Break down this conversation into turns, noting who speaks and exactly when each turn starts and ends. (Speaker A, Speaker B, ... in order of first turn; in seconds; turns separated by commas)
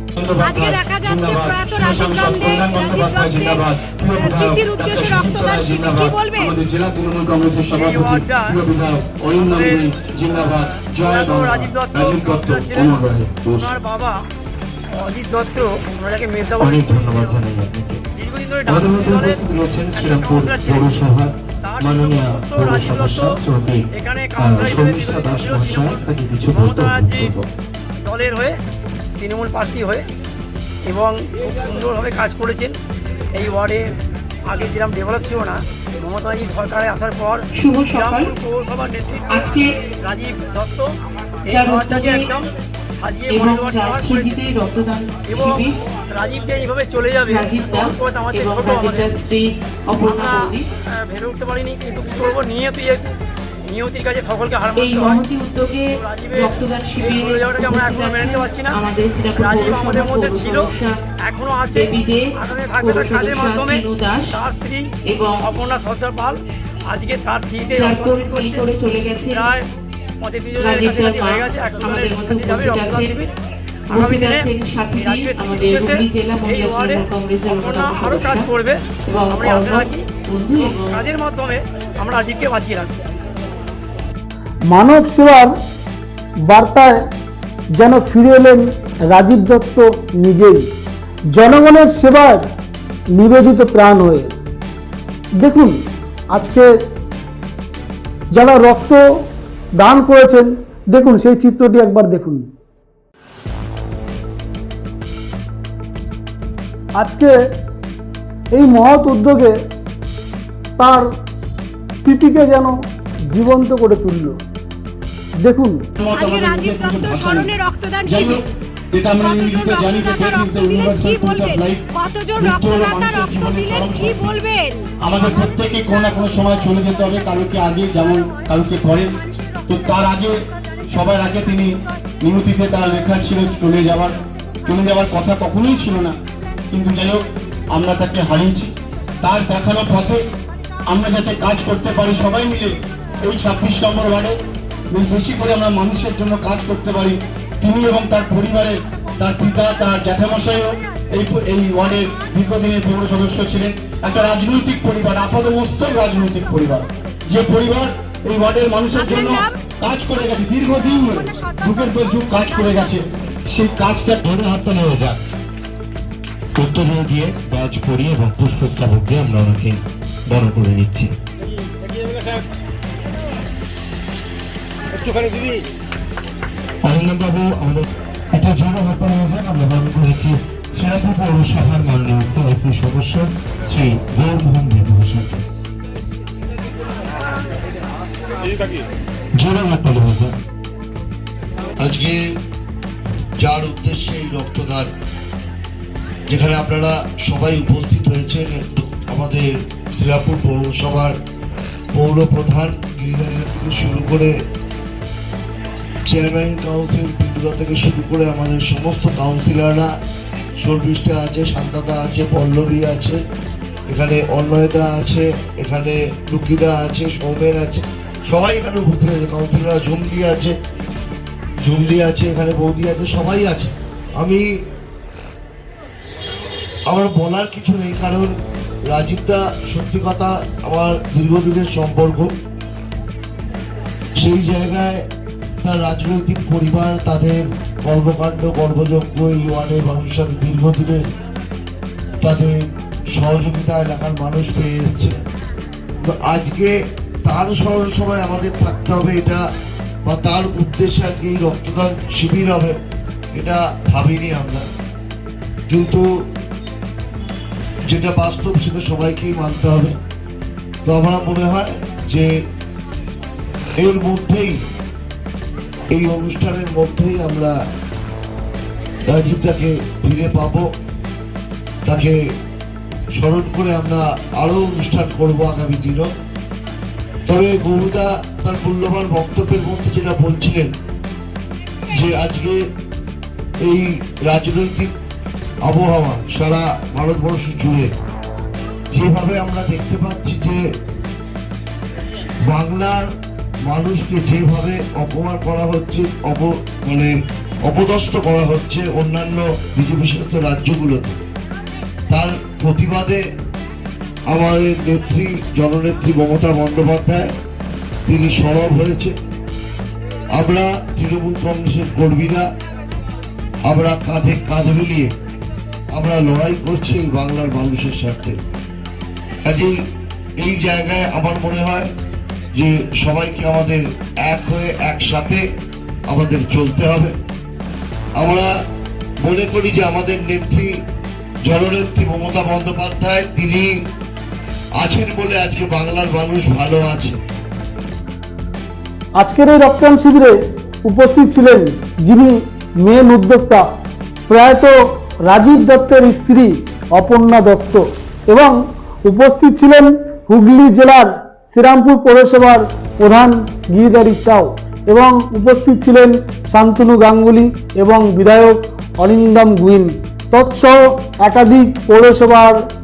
Speaker A: 0.1-13.3, Speaker B: 0.4-6.5, Speaker C: 5.4-6.1, Speaker D: 7.7-8.6, Speaker D: 9.3-9.9, Speaker C: 10.0-10.8, Speaker D: 10.8-14.2, Speaker C: 12.6-13.7, Speaker D: 14.9-17.4, Speaker C: 16.6-18.0, Speaker D: 18.2-21.0, Speaker C: 18.7-27.5, Speaker D: 21.6-23.4, Speaker D: 23.9-27.3, Speaker D: 28.0-28.6, Speaker D: 29.2-30.1, Speaker D: 30.8-32.8, Speaker D: 33.3-44.4, Speaker E: 37.5-38.3, Speaker E: 39.3-39.7, Speaker E: 41.5-42.3, Speaker E: 43.3-45.8, Speaker D: 45.3-49.1, Speaker E: 47.3-50.6, Speaker D: 50.0-55.2, Speaker E: 54.8-60.9, Speaker D: 56.0-58.8, Speaker D: 59.4-60.7, Speaker D: 61.2-68.6, Speaker E: 61.7-64.4, Speaker E: 65.1-65.5, Speaker E: 67.8-69.5, Speaker D: 69.3-69.7, Speaker D: 70.2-73.3, Speaker E: 70.6-73.2, Speaker E: 73.9-78.5, Speaker D: 73.9-74.5, Speaker D: 75.0-82.9, Speaker E: 79.1-81.1, Speaker F: 84.7-85.5, Speaker F: 86.5-87.0, Speaker F: 87.8-90.6, Speaker F: 91.3-92.5, Speaker F: 93.1-94.3, Speaker F: 95.4-95.8, Speaker F: 96.3-96.7, Speaker F: 98.3-99.0, Speaker F: 99.8-102.5, Speaker F: 107.0-107.3, Speaker F: 108.5-109.6, Speaker F: 110.8-111.1, Speaker F: 111.9-112.8, Speaker F: 113.3-114.4, Speaker F: 115.4-115.8, Speaker A: 116.0-117.5, Speaker B: 116.1-118.4, Speaker A: 118.0-124.4, Speaker B: 119.2-124.9, Speaker A: 125.0-136.2, Speaker A: 136.7-140.2, Speaker A: 140.9-144.3, Speaker A: 144.9-164.2, Speaker B: 159.0-159.5, Speaker C: 164.2-165.2, Speaker C: 166.6-171.1, Speaker C: 176.8-185.4, Speaker C: 189.3-190.3, Speaker G: 191.8-192.2, Speaker G: 193.4-194.9, Speaker G: 196.3-201.2, Speaker G: 201.9-204.3, Speaker G: 206.1-209.9, Speaker G: 210.6-213.2, Speaker G: 213.9-220.6, Speaker G: 221.6-224.6, Speaker G: 226.9-228.3, Speaker G: 228.9-232.3, Speaker G: 234.2-235.0, Speaker G: 235.6-241.0, Speaker G: 242.2-245.2, Speaker G: 246.0-249.4, Speaker G: 250.1-252.8, Speaker G: 253.3-254.7, Speaker G: 255.7-256.1, Speaker G: 257.9-260.0, Speaker G: 260.9-262.3, Speaker G: 263.8-264.6, Speaker G: 265.9-267.6, Speaker G: 269.1-270.7, Speaker G: 271.9-272.2, Speaker G: 273.2-276.1, Speaker G: 277.3-280.7, Speaker G: 281.9-282.6, Speaker G: 283.6-284.9, Speaker G: 285.6-287.9, Speaker G: 288.9-290.6, Speaker G: 292.5-293.1, Speaker G: 293.7-297.1, Speaker G: 297.7-301.2, Speaker G: 302.1-303.2, Speaker G: 304.3-307.3, Speaker G: 308.1-309.1, Speaker G: 310.4-312.5, Speaker G: 313.7-315.1, Speaker G: 315.9-318.4, Speaker G: 319.4-319.8, Speaker G: 320.4-321.9, Speaker G: 322.6-325.4, Speaker G: 326.1-327.1, Speaker G: 328.2-328.5, Speaker G: 329.2-330.7, Speaker G: 331.5-333.7, Speaker G: 334.8-337.2, Speaker F: 339.2-343.7, Speaker F: 344.3-362.6